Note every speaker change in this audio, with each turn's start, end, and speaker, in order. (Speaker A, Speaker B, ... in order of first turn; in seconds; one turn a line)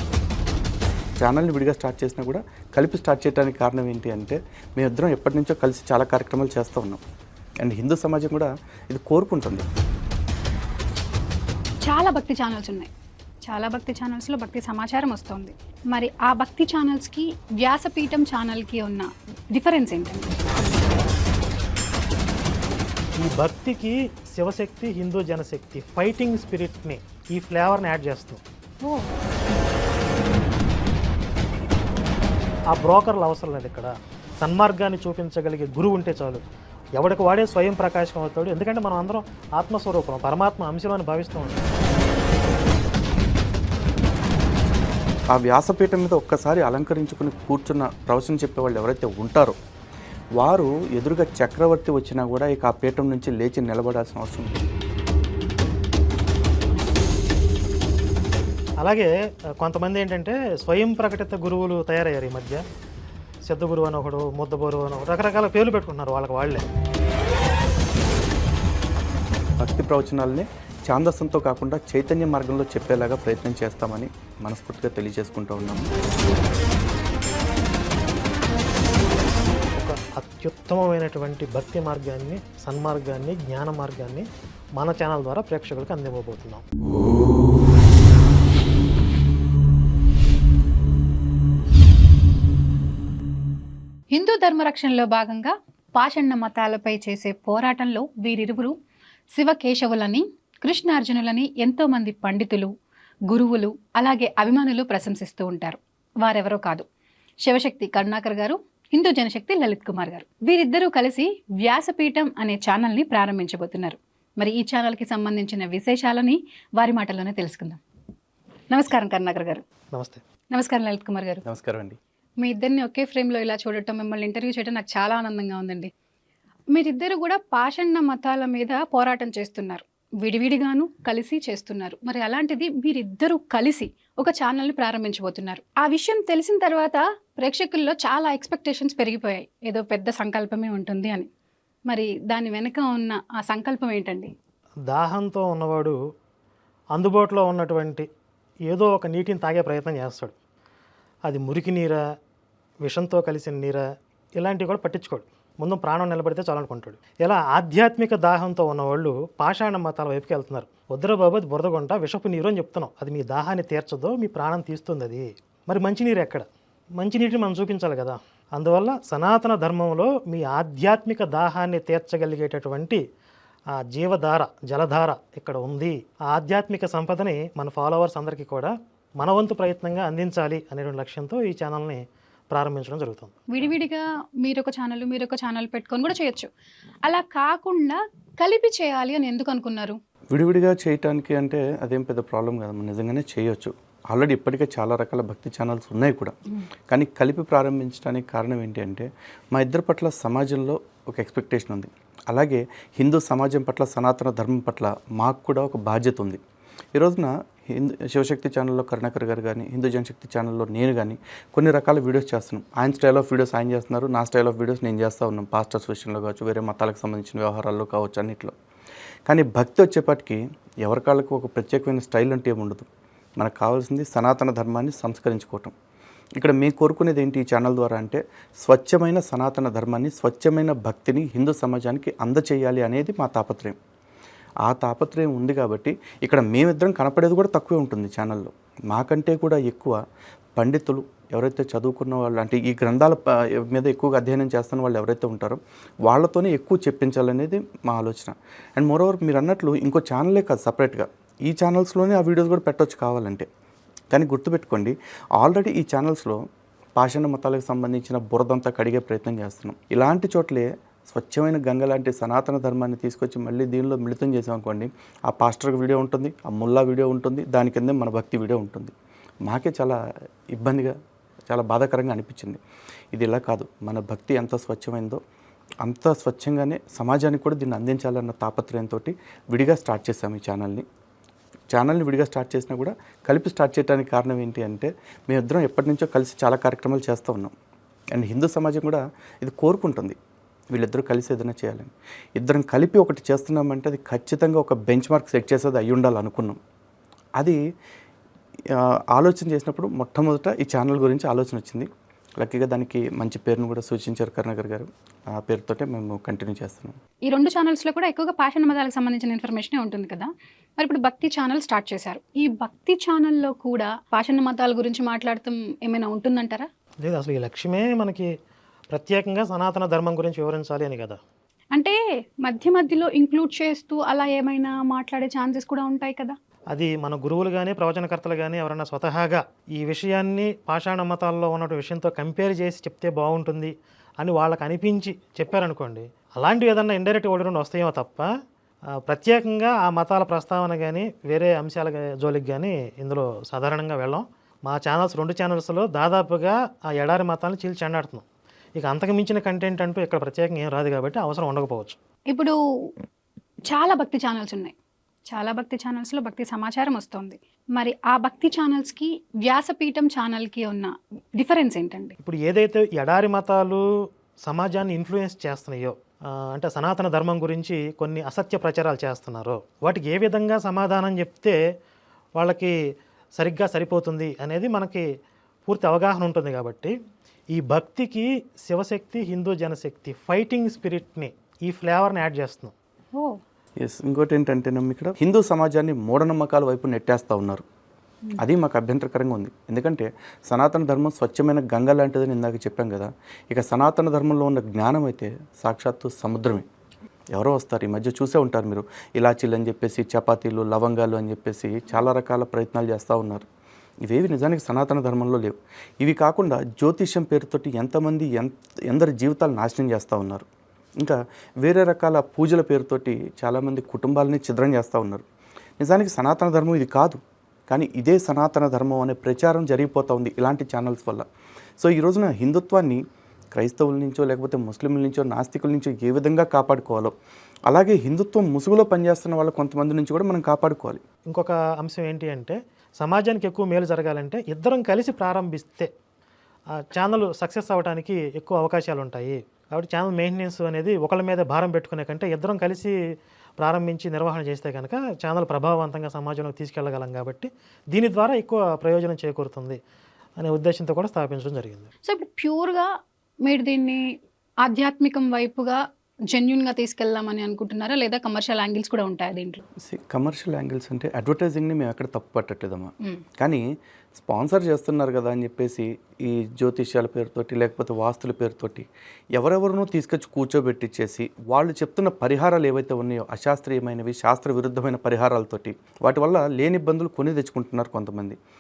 Speaker A: 1.2-7.0
Speaker A: 7.6-9.7
Speaker B: 11.8-12.9
Speaker B: 13.5-20.3
Speaker C: 23.2-28.4
Speaker B: 28.8-29.1
Speaker C: 32.7-36.4
Speaker C: 37.0-41.7
Speaker A: 45.3-49.6
Speaker A: 50.4-54.7
Speaker C: 58.8-59.1
Speaker C: 59.6-62.6
Speaker C: 63.5-66.6
Speaker A: 69.6-75.9
Speaker C: 79.8-84.3
Speaker C: 84.8-86.6
Speaker B: 94.1-98.7
Speaker B: 99.3-102.7
Speaker B: 103.3-106.8
Speaker B: 107.4-117.8
Speaker B: 118.7-119.6
Speaker C: 119.9-120.2
Speaker B: 120.5-121.4
Speaker A: 121.5-122.0
Speaker B: 122.4-125.9
Speaker B: 126.7-141.3
Speaker B: 141.9-144.3
Speaker C: 144.9-146.0
Speaker C: 146.9-148.1
Speaker C: 148.7-150.3
Speaker C: 151.3-152.0
Speaker C: 152.8-153.8
Speaker C: 154.4-166.5
Speaker C: 167.0-173.0
Speaker C: 173.8-183.4
Speaker B: 183.5-186.5
Speaker B: 187.1-190.0
Speaker A: 190.3-196.3
Speaker A: 196.9-206.4
Speaker A: 206.9-218.5
Speaker A: 219.3-222.8
Speaker A: 223.4-225.7
Speaker A: 226.4-233.8
Speaker A: 234.7-240.0
Speaker A: 240.6-253.5
Speaker A: 254.1-256.4
Speaker A: 257.0-268.9
Speaker A: 269.5-270.0
Speaker A: 270.6-270.9
Speaker A: 271.5-272.6
Speaker A: 273.1-275.2
Speaker A: 275.8-280.9
Speaker A: 281.7-287.5
Speaker A: 288.1-290.2
Speaker A: 290.7-296.6
Speaker A: 298.8-301.9
Speaker A: 302.4-307.0
Speaker B: 307.3-316.7
Speaker C: 317.0-318.3
Speaker C: 318.9-321.2
Speaker B: 321.8-326.4
Speaker C: 326.7-338.3
Speaker C: 339.1-348.2
Speaker C: 348.8-352.0
Speaker B: 352.3-352.9
Speaker B: 353.7-354.7
Speaker B: 355.3-362.1
Speaker C: 362.2-363.8
Speaker C: 364.5-366.0
Speaker C: 366.5-371.6
Speaker C: 372.4-372.7
Speaker C: 373.4-375.0
Speaker C: 375.7-376.9
Speaker C: 377.6-382.7
Speaker A: 383.8-387.6
Speaker A: 388.4-396.7
Speaker A: 397.3-403.5
Speaker A: 404.1-410.4
Speaker A: 411.0-415.2
Speaker A: 415.8-421.2
Speaker A: 421.8-423.0
Speaker A: 423.5-427.1
Speaker A: 427.7-431.0
Speaker C: 431.3-435.9
Speaker C: 436.8-442.9
Speaker C: 443.6-449.8
Speaker C: 450.4-451.9
Speaker B: 452.1-452.9
Speaker B: 453.4-454.1
Speaker B: 454.6-455.8
Speaker B: 456.3-459.6
Speaker A: 459.8-463.6
Speaker A: 464.1-478.4